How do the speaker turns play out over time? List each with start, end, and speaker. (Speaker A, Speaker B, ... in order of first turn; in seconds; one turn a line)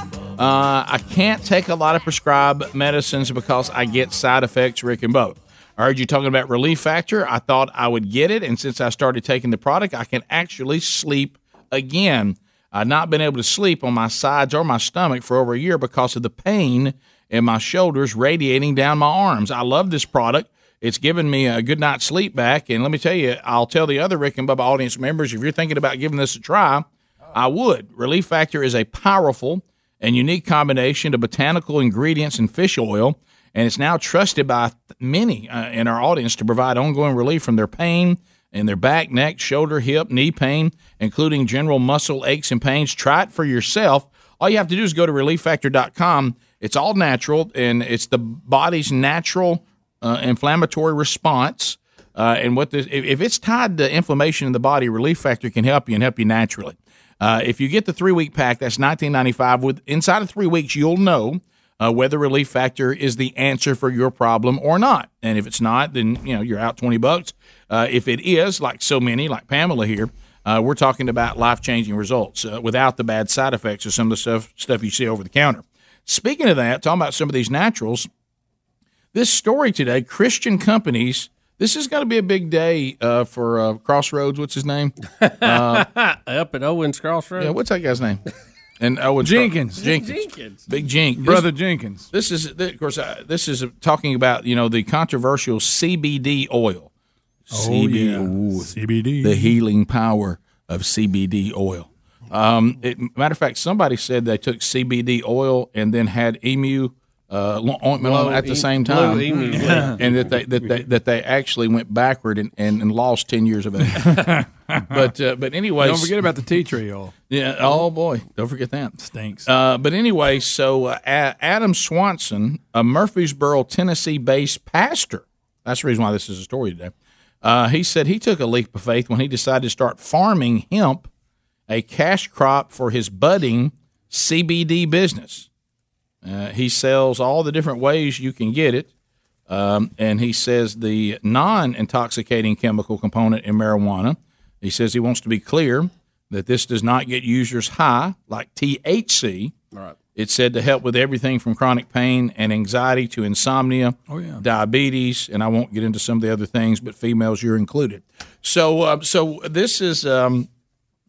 Speaker A: 0.4-78.1
Speaker A: 79.1-85.9
Speaker B: 85.2-87.5
Speaker A: 87.4-88.2
Speaker A: 88.8-91.5
Speaker C: 89.2-89.8
Speaker B: 89.8-90.6
Speaker C: 91.2-92.1
Speaker A: 92.1-96.9
Speaker A: 97.5-114.4
Speaker C: 97.5-99.6
Speaker B: 108.0-110.3
Speaker C: 109.5-109.9
Speaker C: 113.9-115.1
Speaker A: 114.9-116.2
Speaker C: 115.8-117.1
Speaker A: 117.3-126.9
Speaker C: 119.0-119.5
Speaker A: 127.4-131.1
Speaker A: 131.7-135.5
Speaker A: 136.2-138.9
Speaker A: 139.5-149.5
Speaker A: 150.2-160.5
Speaker C: 154.1-154.4